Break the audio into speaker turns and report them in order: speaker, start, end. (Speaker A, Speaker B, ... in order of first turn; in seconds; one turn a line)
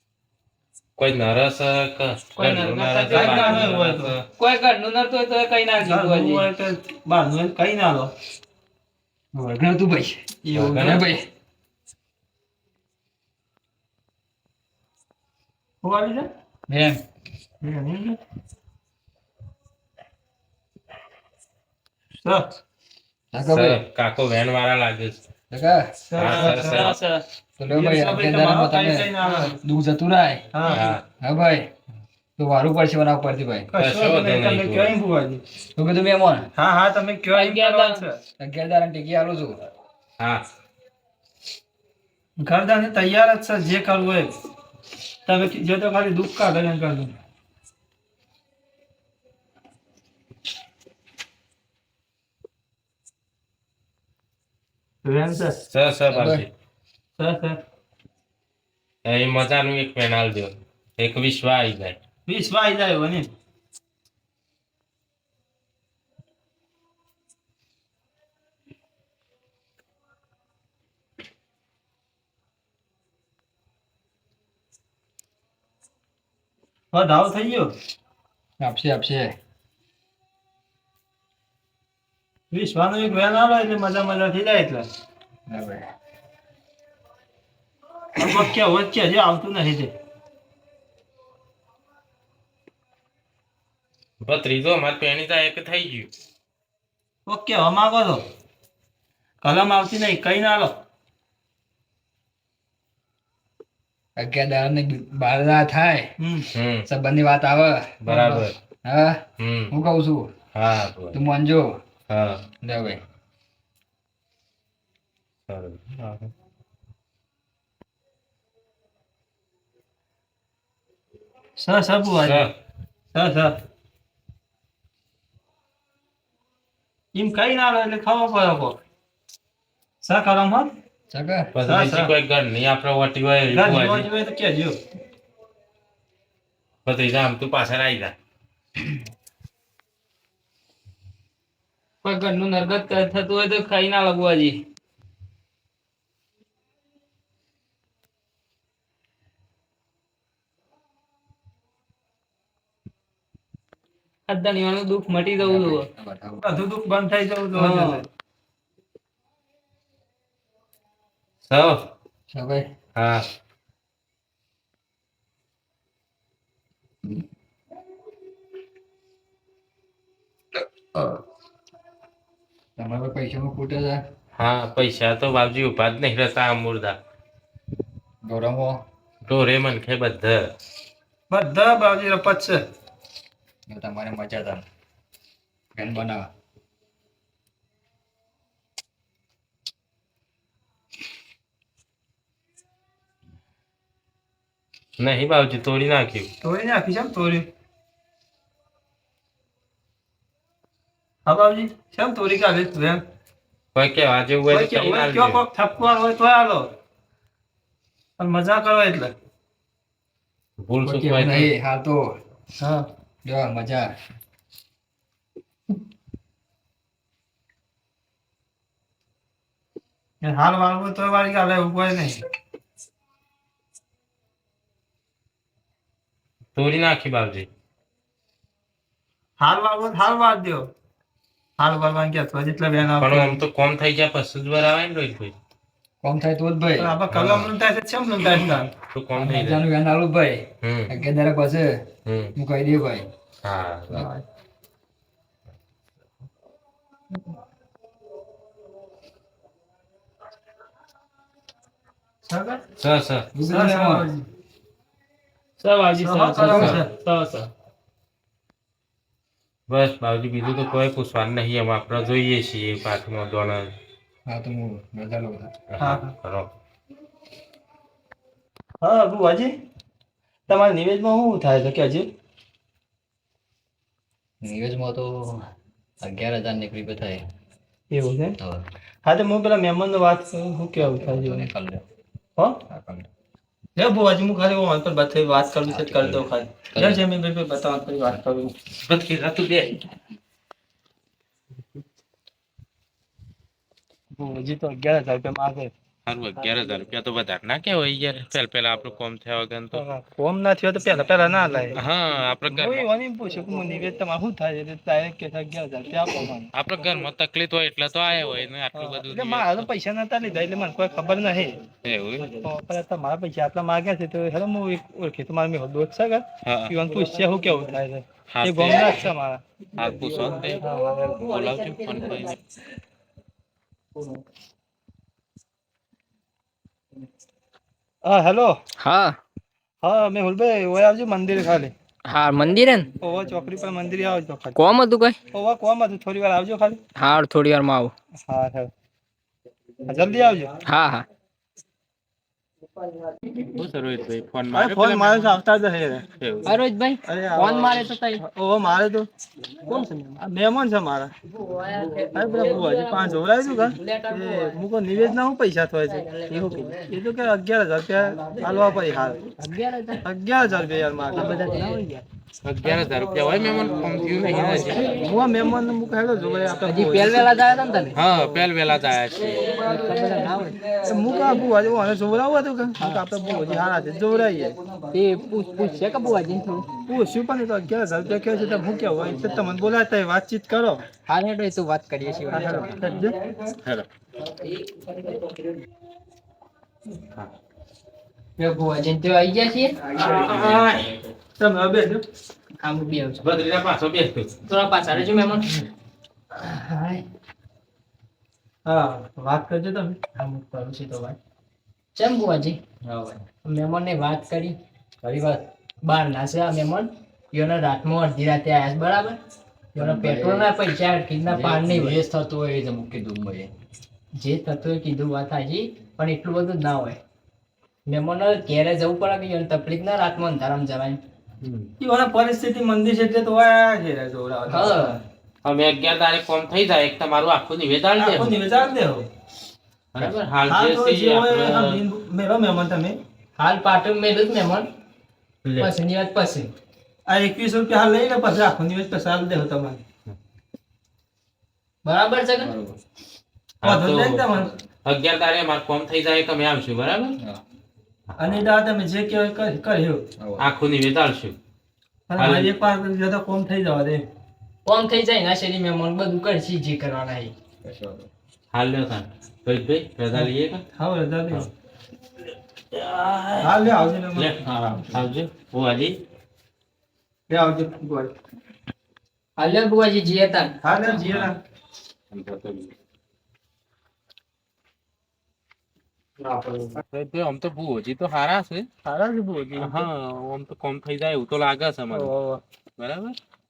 Speaker A: 1.0-4.2
Speaker B: 2.4-3.6
Speaker C: 3.1-4.2
Speaker B: 4.4-6.5
Speaker C: 5.8-8.1
Speaker D: 9.3-11.2
Speaker C: 10.4-11.0
Speaker A: 10.6-11.1
Speaker C: 15.8-16.3
Speaker D: 16.7-17.0
Speaker C: 17.6-18.2
Speaker C: 22.2-22.6
Speaker D: 23.3-23.8
Speaker A: 23.5-25.2
Speaker D: 25.5-26.7
Speaker C: 26.1-26.9
Speaker A: 26.2-27.0
Speaker B: 26.8-27.2
Speaker D: 27.6-30.5
Speaker C: 27.7-29.6
Speaker C: 30.5-30.8
Speaker A: 30.7-31.0
Speaker D: 31.2-31.7
Speaker D: 32.4-33.7
Speaker C: 33.7-35.4
Speaker A: 33.8-35.0
Speaker D: 35.8-36.5
Speaker C: 36.6-38.2
Speaker B: 37.3-38.0
Speaker D: 38.4-39.6
Speaker A: 40.2-40.4
Speaker C: 42.4-44.3
Speaker C: 45.2-47.1
Speaker C: 55.0-55.6
Speaker A: 55.7-56.5
Speaker D: 56.1-56.4
Speaker C: 57.2-57.6
Speaker A: 59.0-62.0
Speaker C: 62.2-63.3
Speaker C: 76.9-77.7
Speaker D: 78.6-79.4
Speaker C: 82.5-84.9
Speaker D: 85.5-85.9
Speaker C: 88.2-89.9
Speaker A: 94.2-96.1
Speaker C: 97.2-98.2
Speaker C: 99.4-100.8
Speaker D: 104.2-106.1
Speaker C: 106.2-106.5
Speaker A: 106.5-106.9
Speaker D: 106.9-110.3
Speaker A: 108.0-108.6
Speaker A: 109.4-109.7
Speaker A: 110.5-111.2
Speaker D: 111.1-111.8
Speaker A: 112.1-112.4
Speaker D: 112.6-113.0
Speaker A: 115.5-115.8
Speaker C: 116.0-116.3
Speaker C: 121.6-122.5
Speaker A: 122.2-122.5
Speaker C: 123.1-123.6
Speaker C: 127.1-128.8
Speaker C: 130.0-130.7
Speaker D: 131.1-131.5
Speaker A: 131.5-134.1
Speaker C: 131.6-132.1
Speaker C: 133.5-134.8
Speaker A: 136.8-138.1
Speaker B: 142.0-144.6
Speaker B: 154.3-155.9
Speaker D: 155.4-156.4
Speaker C: 156.4-158.1
Speaker A: 161.4-161.9
Speaker D: 162.3-162.6
Speaker A: 163.0-163.2
Speaker D: 170.6-171.2
Speaker D: 172.8-174.0
Speaker A: 174.3-177.0
Speaker D: 178.2-178.8
Speaker A: 179.2-180.5
Speaker C: 181.3-182.6
Speaker D: 183.7-184.6
Speaker D: 185.8-186.3
Speaker A: 195.0-196.3
Speaker C: 196.4-197.5
Speaker C: 201.2-203.0
Speaker A: 203.8-205.4
Speaker C: 204.5-206.7
Speaker C: 208.2-209.1
Speaker A: 210.6-211.5
Speaker D: 210.8-212.0
Speaker C: 212.6-212.9
Speaker D: 213.2-213.9
Speaker C: 220.2-222.2
Speaker A: 226.6-227.5
Speaker C: 229.4-230.7
Speaker C: 231.6-233.4
Speaker A: 233.0-235.3
Speaker D: 236.0-237.0
Speaker C: 236.8-238.7
Speaker A: 237.1-237.5
Speaker A: 238.9-239.6
Speaker D: 239.2-241.8
Speaker A: 240.6-241.0
Speaker A: 242.0-242.3
Speaker D: 242.4-243.1
Speaker A: 243.4-244.0
Speaker C: 243.9-244.2
Speaker C: 252.2-252.6
Speaker A: 252.8-253.3
Speaker D: 253.3-254.1
Speaker C: 253.5-254.3
Speaker B: 255.6-257.5
Speaker C: 256.0-256.9
Speaker D: 256.4-256.8
Speaker A: 256.5-256.8
Speaker A: 259.7-263.7
Speaker D: 264.3-265.5
Speaker A: 265.7-266.5
Speaker C: 265.8-266.1
Speaker C: 268.8-269.5
Speaker C: 270.5-272.1
Speaker D: 274.4-275.4
Speaker D: 276.0-277.2
Speaker C: 277.9-278.4
Speaker D: 278.4-278.7
Speaker C: 279.0-281.5
Speaker D: 280.8-281.9
Speaker C: 282.4-282.6
Speaker D: 282.7-283.1
Speaker C: 283.8-288.5
Speaker D: 285.7-287.0
Speaker A: 288.8-289.9
Speaker C: 294.1-295.7
Speaker A: 296.1-299.9
Speaker C: 299.7-301.8
Speaker A: 301.8-302.9
Speaker C: 302.5-306.5
Speaker A: 306.5-309.7
Speaker C: 308.7-311.6
Speaker A: 311.8-312.3
Speaker C: 312.4-319.4
Speaker A: 316.4-316.8
Speaker A: 318.3-319.1
Speaker A: 319.8-322.4
Speaker C: 320.6-321.3
Speaker C: 328.0-328.6
Speaker E: 328.8-329.2
Speaker C: 329.8-331.7
Speaker E: 332.1-332.9
Speaker C: 333.0-334.6
Speaker E: 334.5-335.2
Speaker C: 335.3-336.8
Speaker E: 337.0-337.9
Speaker C: 338.3-338.7
Speaker C: 339.9-340.5
Speaker E: 340.6-341.1
Speaker A: 343.5-345.4
Speaker C: 344.5-346.1
Speaker A: 346.1-346.6
Speaker E: 346.5-348.2
Speaker C: 347.1-349.1
Speaker E: 349.6-350.2
Speaker C: 349.7-351.1
Speaker E: 351.3-354.6
Speaker C: 352.1-359.3
Speaker E: 355.9-357.0
Speaker E: 359.4-360.0
Speaker C: 360.0-361.6
Speaker E: 361.1-362.0
Speaker D: 361.3-361.7
Speaker A: 362.4-365.0
Speaker D: 362.6-368.4
Speaker E: 363.9-365.1
Speaker C: 364.2-367.4
Speaker E: 366.6-367.9
Speaker A: 367.9-369.6
Speaker D: 369.1-372.1
Speaker E: 369.6-370.6
Speaker C: 370.8-374.5
Speaker D: 373.1-377.0
Speaker E: 374.9-376.6
Speaker C: 376.9-380.8
Speaker D: 378.0-379.6
Speaker E: 381.1-382.8
Speaker D: 382.0-383.6
Speaker C: 382.3-383.2
Speaker A: 382.8-383.9
Speaker D: 384.3-385.3
Speaker E: 388.4-389.8
Speaker D: 389.8-390.9
Speaker A: 389.9-391.0
Speaker C: 390.0-390.5
Speaker C: 391.4-392.0
Speaker E: 392.6-393.3
Speaker A: 393.2-394.4
Speaker E: 394.5-395.5
Speaker E: 396.3-397.0
Speaker C: 398.6-400.0
Speaker E: 400.1-401.2
Speaker E: 401.9-402.6
Speaker D: 402.9-403.2
Speaker E: 403.4-404.6
Speaker D: 405.0-405.5
Speaker E: 405.8-409.2
Speaker D: 409.8-410.5
Speaker E: 409.8-412.0
Speaker D: 411.2-413.5
Speaker E: 414.1-417.0
Speaker E: 417.9-421.0
Speaker A: 421.4-421.7
Speaker C: 421.8-425.0
Speaker E: 424.5-425.0
Speaker A: 425.4-428.4
Speaker C: 428.0-429.0
Speaker A: 429.9-431.8
Speaker C: 430.5-433.0
Speaker E: 433.4-434.7
Speaker A: 435.4-435.7
Speaker E: 435.6-436.5
Speaker C: 437.1-439.8
Speaker E: 441.8-442.5
Speaker D: 442.4-442.8
Speaker A: 443.6-447.2
Speaker C: 443.6-444.5
Speaker A: 448.1-448.5
Speaker C: 448.2-450.0
Speaker D: 450.2-450.5
Speaker A: 450.4-451.4
Speaker C: 452.1-454.0
Speaker A: 452.2-452.5
Speaker E: 454.6-457.3
Speaker D: 457.6-458.1
Speaker A: 458.5-460.6
Speaker C: 460.1-461.5
Speaker A: 462.7-466.0
Speaker C: 463.4-464.4
Speaker C: 467.3-468.1
Speaker E: 469.4-470.8
Speaker C: 470.6-471.4
Speaker A: 471.0-471.3
Speaker A: 472.1-472.7
Speaker C: 476.2-476.8
Speaker A: 476.9-478.7
Speaker C: 478.9-479.9
Speaker A: 479.5-482.1
Speaker C: 481.9-482.4
Speaker A: 482.8-483.2